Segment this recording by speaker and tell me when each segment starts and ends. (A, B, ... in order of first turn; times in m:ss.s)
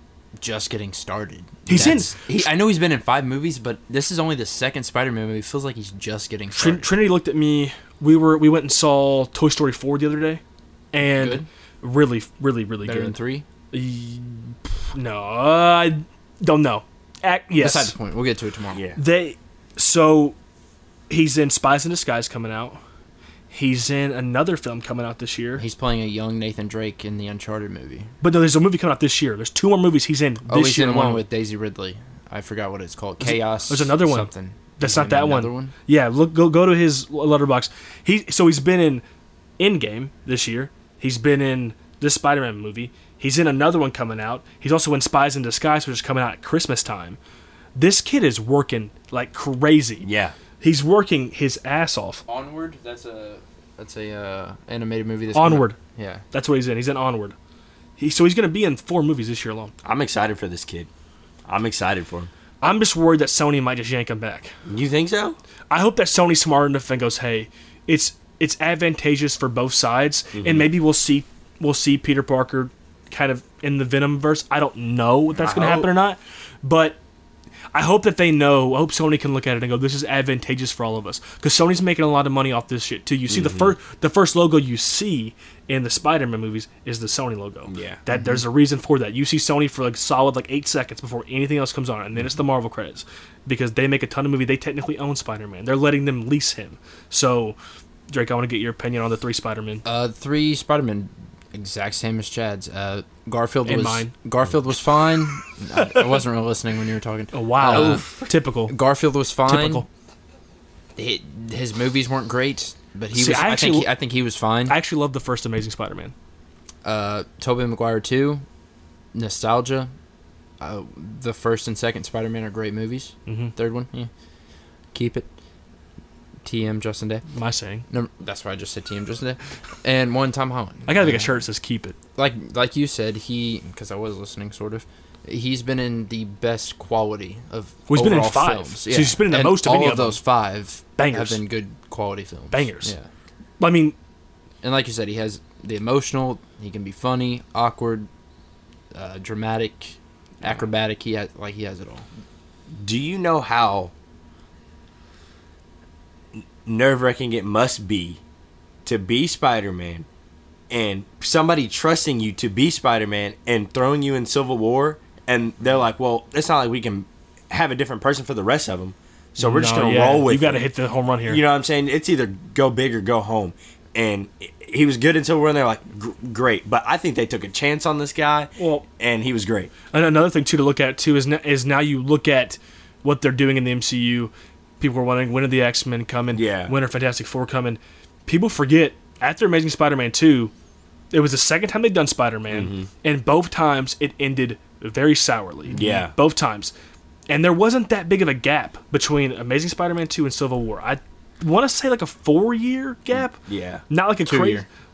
0:00.4-0:06.9 A
0:01.7-0:02.1 B
0:06.5-0:10.4 B
0:10.9-0:13.2 B
0:11.0-0:11.5 A
0:12.8-0:13.4 A
0:13.7-0:17.9 B
0:17.6-0:18.8 A
0:18.7-0:19.0 C
0:19.0-0:20.4 B
0:21.1-0:22.8 B
0:23.5-0:25.6 B
0:25.6-0:28.1 A
0:28.2-0:31.2 B
0:30.5-0:35.7 A
0:33.2-0:39.0 B
0:39.6-0:47.2 B
0:47.8-0:50.1 B
0:50.0-0:50.3 C
0:50.6-0:52.2 B
0:52.3-0:56.2 A
0:55.3-0:55.8 B
0:56.3-0:57.4 B
0:58.0-0:59.7 B
0:59.8-1:00.9 C
1:01.5-1:02.3 C
1:02.6-1:04.5 B
1:04.7-1:05.4 C
1:05.7-1:17.0 B
1:10.4-1:10.7 C
1:15.4-1:15.9 C
1:17.7-1:37.6 B
1:23.3-1:23.7 C
1:27.7-1:28.0 C
1:28.1-1:28.4 A
1:38.1-1:39.8 B
1:39.8-1:48.1 A
1:43.7-1:44.1 B
1:45.8-1:46.2 B
1:47.3-1:48.8 B
1:47.7-1:48.3 C
1:48.7-1:49.9 A
1:49.5-1:49.9 B
1:51.0-1:54.8 A
1:53.1-1:53.9 B
1:54.7-1:56.1 B
1:56.8-1:58.4 A
1:59.1-1:59.9 A
2:00.6-2:04.1 A
2:03.3-2:03.5 B
2:04.9-2:05.3 A
2:06.4-2:07.2 A
2:07.3-2:07.8 B
2:07.9-2:11.3 A
2:10.9-2:12.0 B
2:12.2-2:23.1 A
2:17.9-2:20.2 B
2:21.0-2:21.4 B
2:22.5-2:22.9 B
2:23.6-2:24.0 B
2:24.6-2:28.1 A
2:28.9-2:32.1 A
2:32.7-2:33.9 C
2:36.4-2:38.2 C
2:38.9-2:40.1 C
2:40.7-2:50.7 C
2:49.4-2:51.4 B
2:51.3-2:59.7 C
2:58.6-2:58.8 B
2:59.9-3:10.5 B
3:06.3-3:06.7 C
3:11.1-3:16.7 B
3:12.5-3:12.9 C
3:15.7-3:16.1 C
3:17.3-3:23.4 B
3:23.4-3:23.8 C
3:23.9-3:24.6 B
3:24.2-3:24.7 A